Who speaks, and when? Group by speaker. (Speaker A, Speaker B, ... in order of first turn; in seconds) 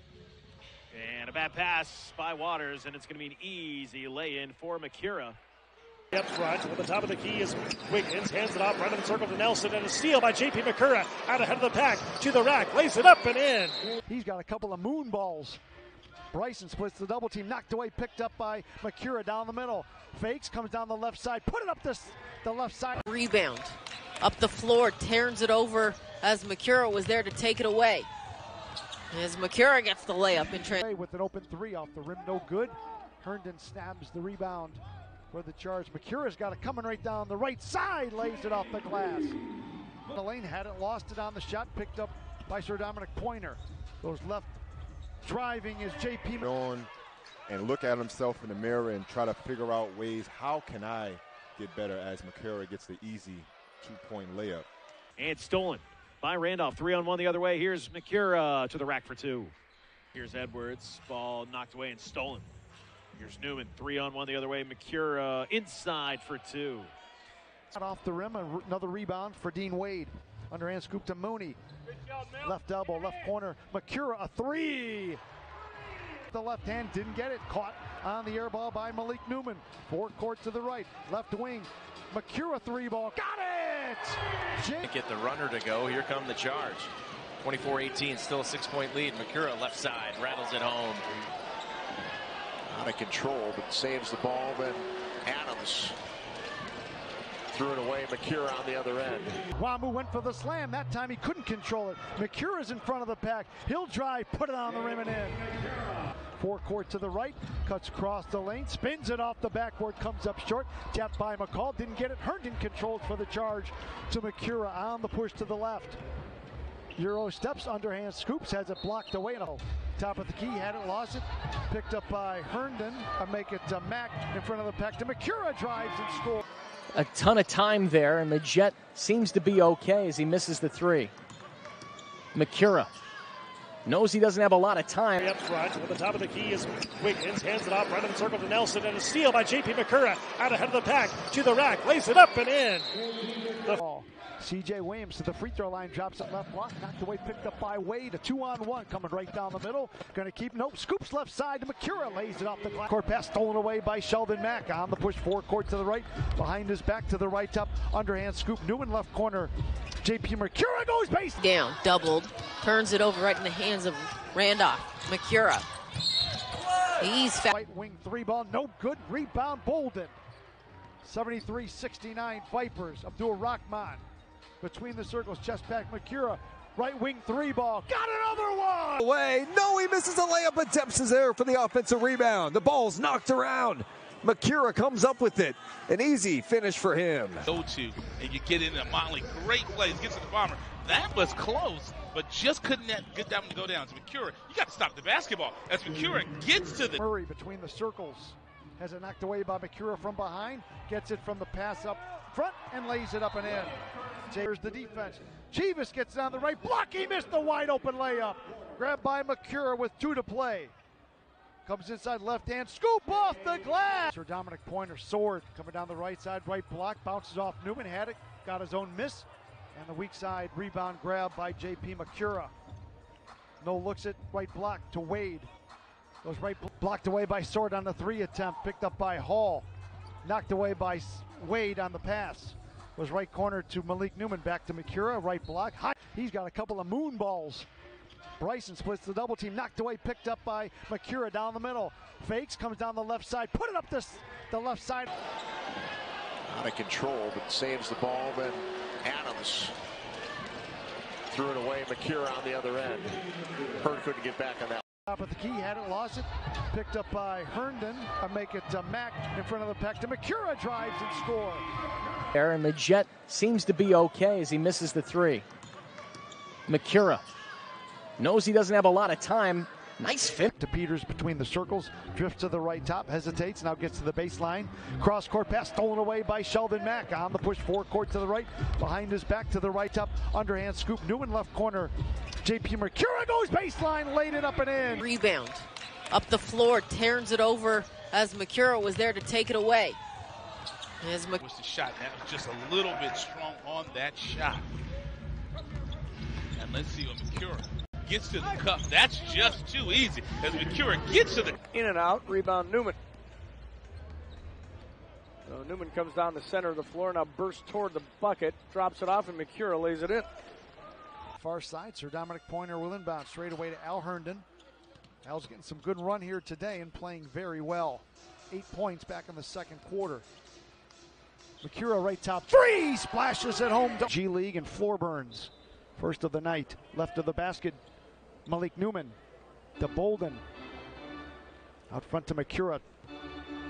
Speaker A: 0.9-5.4, 55.2-59.5, 60.1-62.5, 63.1-66.9
Speaker B: 6.1-13.8, 135.2-142.9
Speaker C: 14.1-15.6, 16.3-23.0, 30.8-39.3, 40.1-44.6, 45.2-46.5, 67.7-71.6, 72.4-75.2, 76.3-84.9, 99.5-105.4, 106.4-116.0, 117.0-126.4, 143.8-161.4, 167.5-170.2, 171.0-174.0, 174.6-179.0, 197.0-203.7, 204.3-210.7, 211.6-222.5, 223.6-225.5, 226.2-229.7, 230.2-237.7, 238.4-245.1, 255.1-261.6, 270.5-285.0, 311.4-314.4, 315.2-320.2, 321.6-327.8, 328.4-329.1, 329.8-330.4, 331.9-332.8
Speaker D: 23.0-28.1, 29.1-30.8, 161.4-165.7, 167.0-167.5, 285.0-290.0, 291.0-291.4
Speaker E: 46.4-46.9, 47.5-54.7
Speaker F: 84.8-86.9, 87.4-91.0
Speaker G: 92.7-95.9, 97.5-99.4, 246.4-249.7, 251.3-253.1, 253.8-254.8
Speaker H: 126.9-131.1, 132.3-132.9, 133.8-135.2, 262.3-265.4, 266.7-267.2, 268.2-270.5
Speaker I: 179.0-187.5
Speaker J: 187.5-197.0, 291.4-294.6, 296.6-301.5
Speaker K: 301.7-303.0, 305.5-310.3